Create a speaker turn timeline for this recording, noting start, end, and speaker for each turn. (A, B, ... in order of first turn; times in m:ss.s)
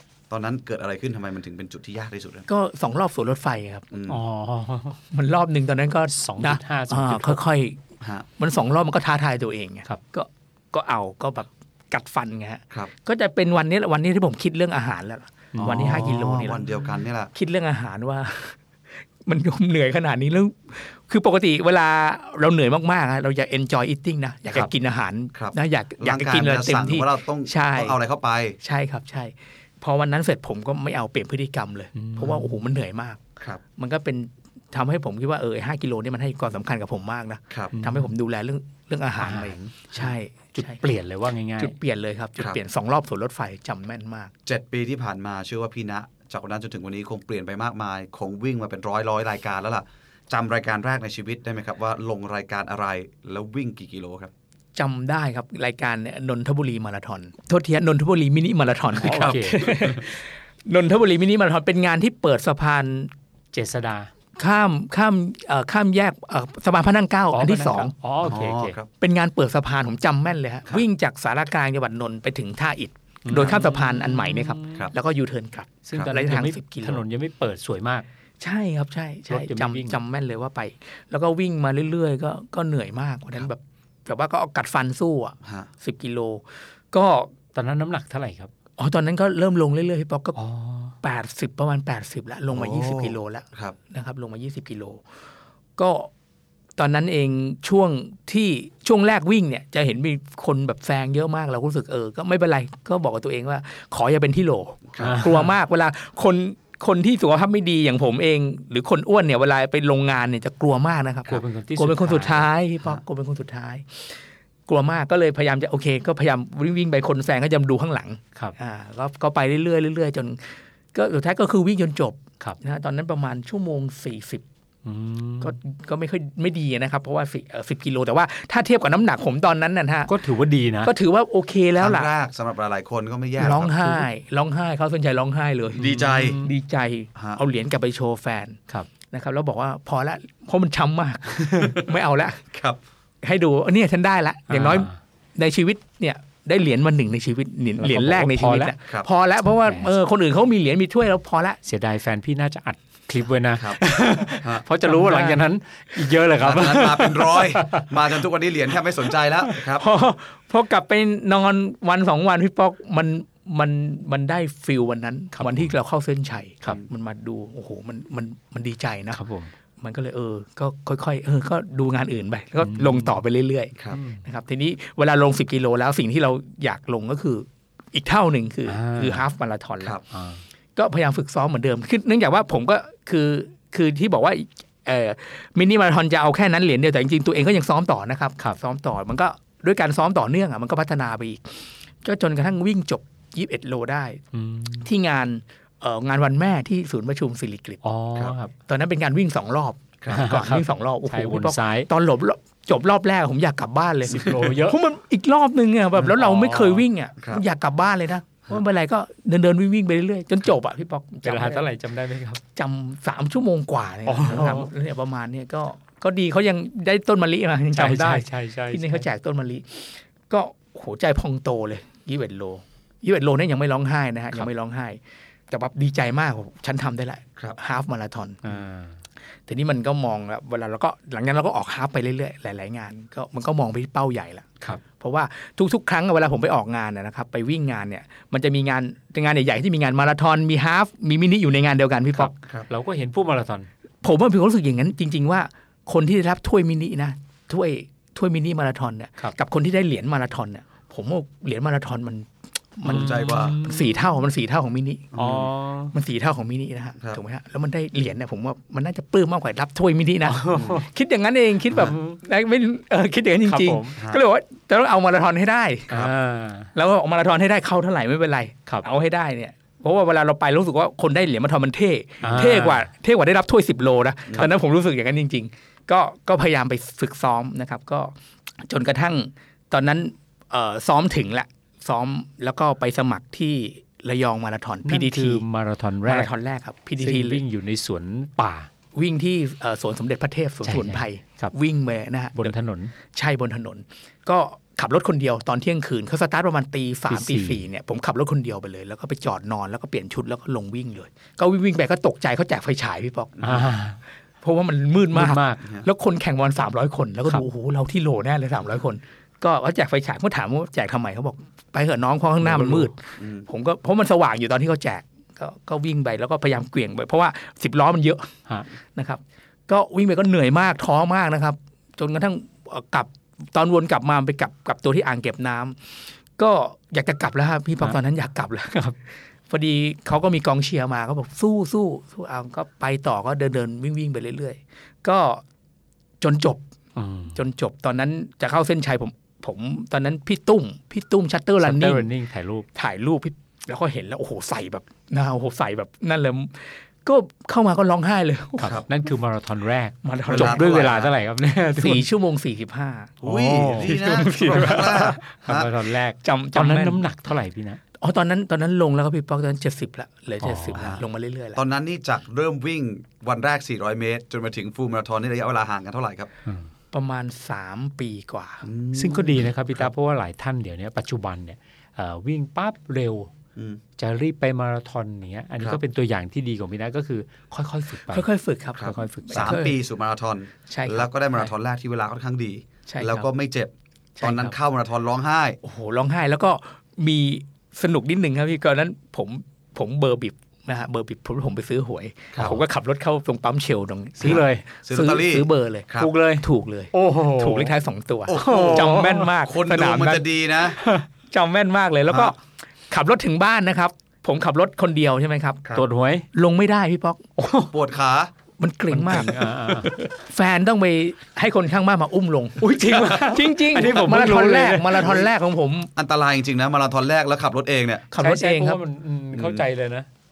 0:00.3-0:02.4 A
0:02.5-0:03.9 B
0:03.9-0:04.2 A
0:04.1-0:05.0 C
0:05.1-0:07.8 B
0:06.1-0:07.4 C
0:08.4-0:16.6 B
0:15.5-0:16.6 C
0:15.6-0:17.3 A
0:17.3-0:18.6 B
0:19.2-0:28.0 B
0:25.3-0:28.6 A
0:28.6-0:33.2 B
0:32.0-0:32.6 C
0:33.8-0:40.8 B
0:37.7-0:38.1 C
0:39.2-0:39.6 C
0:40.5-0:41.7 C
0:41.6-0:44.3 B
0:44.4-0:54.3 A
0:54.7-1:03.1 B
0:58.9-0:59.9 C
0:59.0-0:59.4 A
1:03.5-1:04.1 C
1:04.4-1:07.9 B
1:07.3-1:08.8 C
1:08.2-1:08.9 A
1:09.0-1:17.0 B
1:13.2-1:14.9 C
1:15.8-1:18.0 C
1:18.4-1:27.3 B
1:19.3-1:20.0 C
1:25.4-1:25.7 A
1:27.5-1:28.5 C
1:28.8-1:30.4 B
1:30.4-1:30.9 C
1:31.0-1:35.0 B
1:32.5-1:33.8 A
1:35.8-1:36.1 B
1:36.8-2:04.4 B
1:44.9-1:45.2 A
1:45.0-1:45.5 C
1:51.3-1:52.5 C
2:04.8-2:05.6 C
2:05.4-2:10.2 B
2:10.1-2:10.9 C
2:10.8-2:12.1 B
2:11.8-2:14.0 A
2:13.4-2:22.4 B
2:15.7-2:16.4 A
2:15.8-2:16.5 C
2:22.5-2:22.8 A
2:23.2-2:31.6 B
2:24.5-2:25.0 C
2:27.8-2:28.7 C
2:29.5-2:29.9 C
2:31.6-2:37.9 C
2:34.8-2:35.4 B
2:36.4-2:39.8 A
2:39.7-2:49.2 B
2:45.3-2:45.7 C
2:49.1-2:49.5 C
2:49.8-3:00.0 B
2:52.6-2:53.2 C
2:53.9-2:54.2 C
2:58.6-2:59.2 C
3:00.1-3:00.4 C
3:00.8-3:14.2 B
3:14.3-3:14.9 C
3:14.8-3:17.8 B
3:17.8-3:18.5 C
3:18.6-3:31.7 B
3:20.0-3:20.3 A
3:20.1-3:21.9 C
3:24.1-3:24.8 C
3:26.0-3:26.8 C
3:31.2-3:32.4 C
3:32.5-3:48.4 B
3:34.0-3:34.7 C
3:37.8-3:39.0 C
3:48.4-3:49.0 C
3:49.5-4:02.3 B
4:02.2-4:03.7 C
4:04.0-4:15.1 B
4:12.8-4:13.6 A
4:12.8-4:14.2 C
4:15.1-4:15.5 A
4:15.2-4:15.9 C
4:15.9-4:26.0 B
4:20.2-4:20.8 C
4:20.5-4:20.8 A
4:21.7-4:22.2 C
4:23.4-4:23.9 C
4:25.9-4:26.7 C
4:26.7-4:45.4 B
4:32.2-4:32.9 C
4:44.8-4:46.3 C
4:46.0-4:47.4 B
4:47.0-4:48.7 C
4:48.9-4:52.5 B
4:50.6-4:51.5 C
4:52.4-4:52.9 C
4:53.0-5:03.6 B
4:57.1-4:57.6 C
5:03.4-5:03.7 A
5:03.4-5:04.0 C
5:04.4-5:18.3 B
5:05.1-5:05.6 C
5:12.4-5:12.9 C
5:13.2-5:13.4 A
5:18.9-5:28.9 B
5:29.5-5:35.4 B
5:36.2-5:36.6 B
5:37.0-5:37.4 C
5:37.3-5:42.1 B
5:41.6-5:42.7 C
5:42.7-5:48.8 B
5:48.6-5:52.1 C
5:50.0-5:51.1 B
5:50.3-5:51.1 A
5:51.8-5:53.2 B
5:53.2-5:55.7 A
5:53.2-5:57.8 C
5:53.8-5:55.2 B
5:56.2-5:57.0 B
5:58.0-6:01.6 B
6:00.4-6:00.9 C
6:00.8-6:01.0 A
6:01.5-6:06.3 A
6:06.9-6:08.6 B
6:08.6-6:09.9 A
6:08.9-6:13.3 C
6:14.0-6:18.3 C
6:18.1-6:19.8 B
6:18.8-6:25.6 A
6:18.8-6:19.6 C
6:20.7-6:21.1 B
6:22.9-6:23.3 B
6:24.2-6:24.5 B
6:25.6-6:40.3 B
6:34.2-6:34.6 C
6:34.2-6:36.1 A
6:36.0-6:37.7 C
6:38.3-6:40.8 A
6:38.3-6:39.3 C
6:40.8-6:41.0 C
6:41.2-6:42.4 B
6:42.9-6:45.6 B
6:45.7-6:46.2 C
6:46.3-6:47.3 B
6:47.4-6:47.7 C
6:47.7-6:48.3 A
6:48.6-6:55.9 B
6:48.9-6:50.0 C
6:52.6-6:55.2 C
6:56.0-6:58.1 A
6:58.1-6:58.8 B
6:58.2-7:00.1 C
6:59.3-6:59.6 A